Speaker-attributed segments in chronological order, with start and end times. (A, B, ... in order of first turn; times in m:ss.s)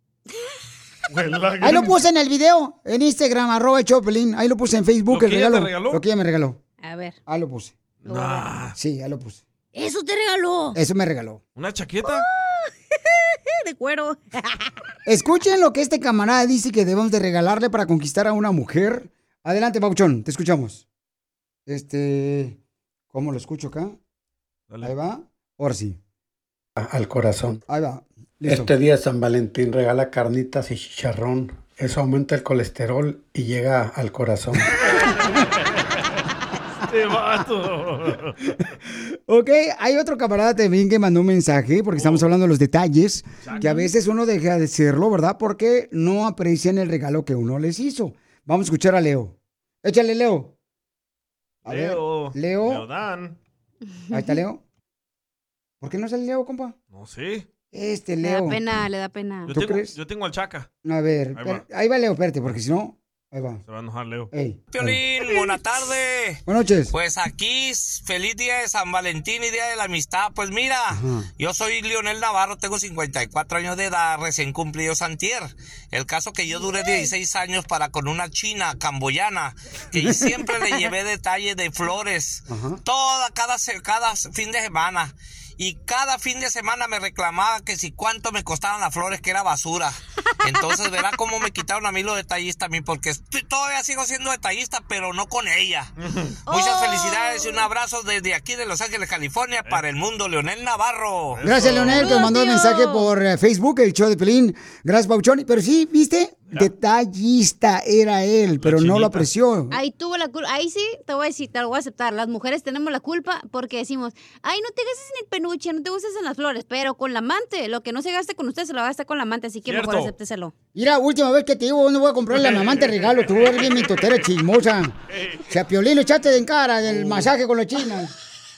0:01.1-0:02.0 A
0:01.6-0:06.6 B
0:05.1-0:06.0 A
0:06.8-0:07.2 C
0:07.3-0:07.7 B
0:08.1-0:08.5 C
0:08.1-0:08.8 A
0:08.8-0:09.4 B
0:09.7-0:10.8 C
0:10.8-0:11.4 B
0:11.6-0:12.2 A
0:13.6-0:14.6 C
0:15.1-0:20.8 B
0:21.7-0:22.6 B
0:23.1-0:24.0 B
0:24.7-0:25.0 A
0:24.8-0:26.0 B
0:26.8-0:27.6 D
0:27.7-0:28.0 B
0:28.4-0:34.7 D
0:34.9-0:35.4 A
0:36.8-0:38.5 A
0:39.3-0:50.5 B
0:42.0-0:42.3 A
0:43.4-0:43.8 A
0:43.6-0:43.9 C
0:51.6-0:53.4 A
0:51.7-0:52.8 B
0:54.0-0:54.4 C
0:54.1-0:54.6 B
0:55.8-0:56.8 B
0:56.9-0:57.5 A
0:57.7-0:58.6 B
0:58.2-0:59.5 C
0:59.5-1:00.7 A
0:59.5-0:59.9 B
1:00.8-1:03.6 B
1:01.3-1:01.6 A
1:03.7-1:04.3 A
1:04.3-1:04.9 B
1:04.7-1:35.9 E
1:06.5-1:06.9 B
1:10.9-1:11.3 B
1:22.5-1:22.8 B
1:36.0-1:36.3 A
1:36.5-1:37.6 C
1:36.5-1:41.4 E
1:41.3-1:42.2 A
1:41.4-1:49.8 B
1:41.9-1:43.1 C
1:48.6-1:49.3 A
1:49.7-2:00.5 C
1:59.7-2:00.1 A
2:00.8-2:05.0 B
2:02.3-2:04.2 A
2:05.1-2:05.5 A
2:05.5-2:08.1 B
2:06.8-2:07.3 A